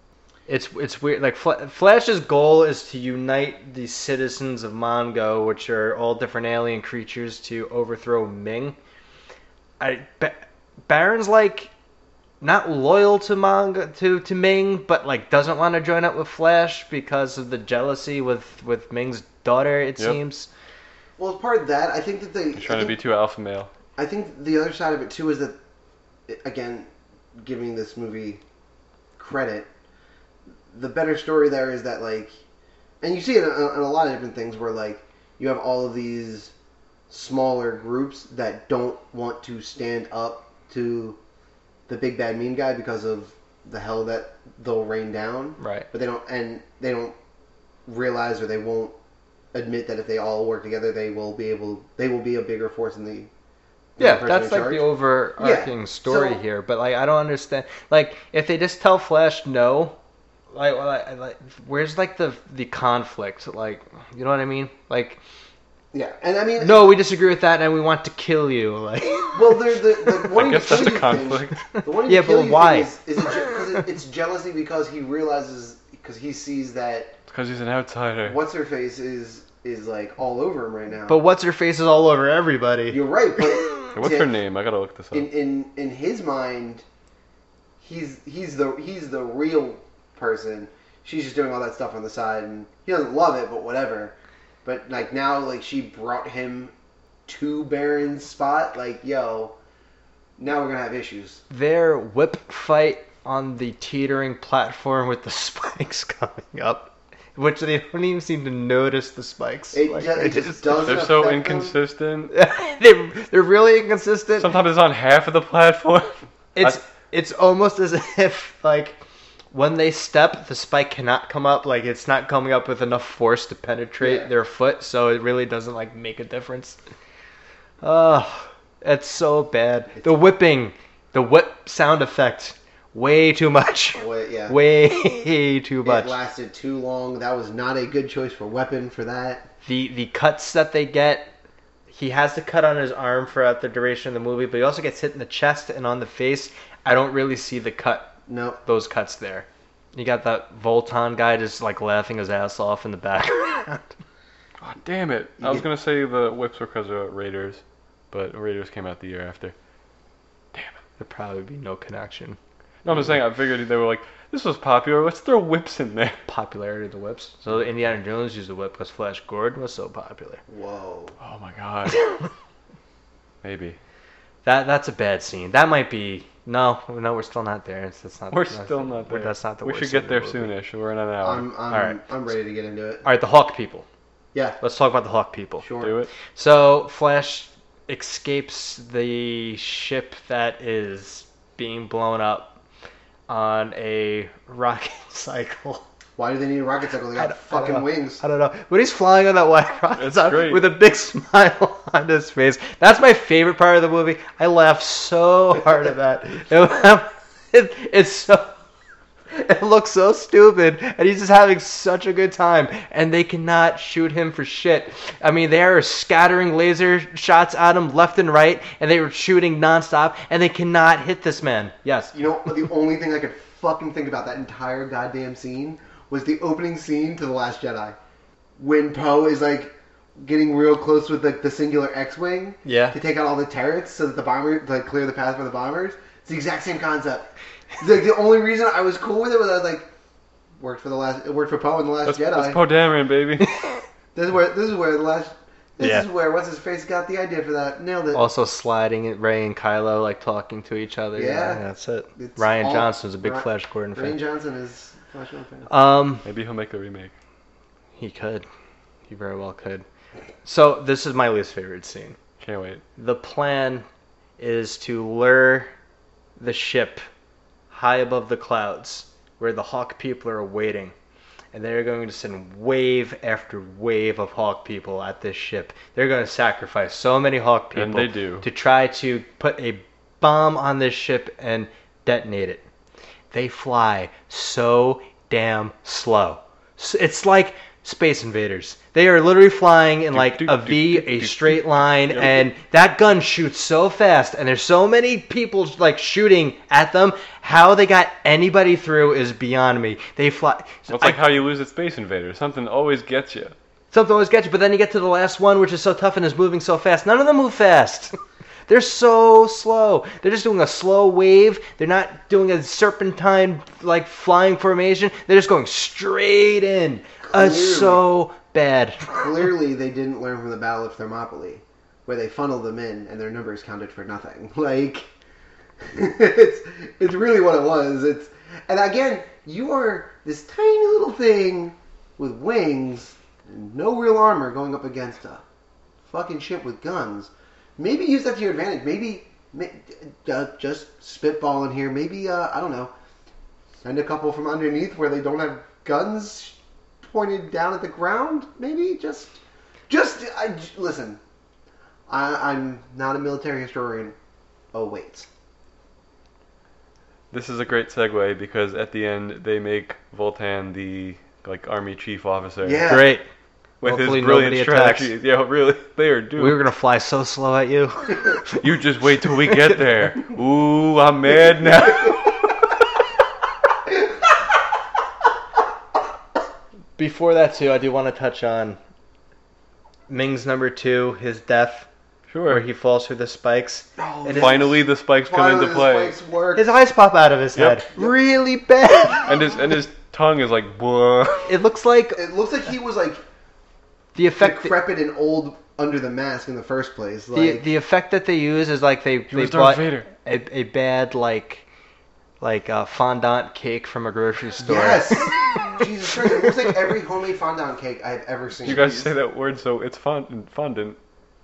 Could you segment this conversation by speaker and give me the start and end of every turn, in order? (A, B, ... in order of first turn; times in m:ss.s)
0:00.5-0:08.8 A
0:09.8-0:11.7 A
0:12.4-0:20.5 A
0:21.2-0:23.0 B
0:22.6-0:23.7 C
0:24.0-0:25.6 B
0:26.3-0:28.4 B
0:29.2-0:29.7 B
0:30.7-0:32.4 B
0:33.0-0:36.5 B
0:37.1-0:41.2 B
0:41.9-0:47.2 B
0:45.6-0:45.9 A
0:47.9-0:49.0 B
0:49.5-0:53.3 B
0:54.0-0:56.4 B
0:54.0-1:00.0 A
1:00.5-1:05.2 A
1:05.9-1:06.9 B
1:06.6-1:09.8 A
1:09.3-1:17.2 B
1:10.3-1:11.7 C
1:11.8-1:12.9 A
1:17.3-1:18.4 C
1:18.2-1:21.2 B
1:21.1-1:23.0 A
1:22.9-1:24.3 B
1:23.9-1:25.3 C
1:25.1-1:26.8 B
1:27.8-1:36.7 B
1:37.3-1:39.6 B
1:40.4-1:41.4 B
1:41.5-1:50.9 A
1:49.7-1:51.8 B
1:50.8-1:52.3 C
1:52.3-1:54.5 A
1:54.4-1:56.8 C
1:56.6-1:59.0 A
1:59.5-2:06.8 A
2:04.0-2:04.3 B
2:07.8-2:16.2 A
2:10.0-2:10.2 B
2:14.0-2:14.6 B
2:15.8-2:19.5 B
2:19.6-2:21.3 A
2:21.9-2:34.0 A
2:28.3-2:28.6 B
2:34.6-2:39.6 C
2:35.4-2:35.7 B
2:40.5-2:40.8 C
2:41.0-2:42.4 A
2:42.8-2:46.2 C
2:46.3-2:50.4 A
2:50.5-2:51.2 B
2:51.2-2:52.2 C
2:53.4-2:53.8 C
2:54.4-3:00.5 A
2:58.3-3:01.5 C
3:01.2-3:03.1 B
3:01.7-3:02.0 A
3:03.0-3:03.9 A
3:04.6-3:05.7 A
3:05.6-3:06.0 B
3:05.8-3:06.1 C
3:06.3-3:12.6 A
3:13.3-3:15.8 A
3:16.2-3:18.2 B
3:17.2-3:28.6 A
3:20.0-3:20.7 C
3:29.3-3:42.2 A
3:42.1-3:48.0 B
3:48.6-3:59.9 B
3:52.6-3:53.0 A
4:00.6-4:02.6 B
4:02.1-4:03.5 C
4:04.2-4:08.3 B
4:05.8-4:06.1 A
4:08.1-4:14.2 A
4:11.2-4:11.6 B
4:12.2-4:15.7 B
4:15.7-4:16.3 A
4:16.2-4:17.1 C
4:18.0-4:18.5 A
4:19.1-4:19.8 A
4:20.4-4:22.2 A
4:22.4-4:22.8 C
4:23.0-4:23.9 A
4:24.4-4:25.7 A
4:26.4-4:27.0 A
4:27.7-4:30.9 A
4:31.5-4:42.6 A
4:37.7-4:38.5 C
4:43.3-5:01.3 A
4:50.1-4:52.5 C
5:00.9-5:03.6 C
5:03.9-5:08.2 A
5:08.7-5:19.1 A
5:17.2-5:18.1 B
5:19.1-5:25.1 B
5:25.8-5:35.4 B
5:36.1-5:42.9 B
5:43.8-5:51.2 B
5:52.1-5:54.2 B
5:54.7-5:55.3 B
5:57.3-6:03.0 C
6:02.6-6:03.2 B
6:02.9-6:03.3 A
6:03.8-6:06.6 C
6:03.8-6:05.1 A
6:06.4-6:08.6 A
6:08.5-6:12.7 C
6:17.0-6:18.8 A
6:20.1-6:21.9 A
6:22.3-6:22.6 C
6:22.5-6:24.7 A
6:24.0-6:26.7 B
6:24.3-6:26.2 C
6:26.6-6:29.4 A
6:27.6-6:27.8 C
6:29.3-6:31.6 C
6:31.5-6:32.2 A
6:32.2-6:33.2 B
6:34.2-6:34.8 A
6:34.4-6:37.7 B
6:37.3-6:41.6 A
6:39.3-6:40.1 C
6:42.4-6:45.8 A
6:44.6-6:49.1 B
6:48.6-6:51.0 C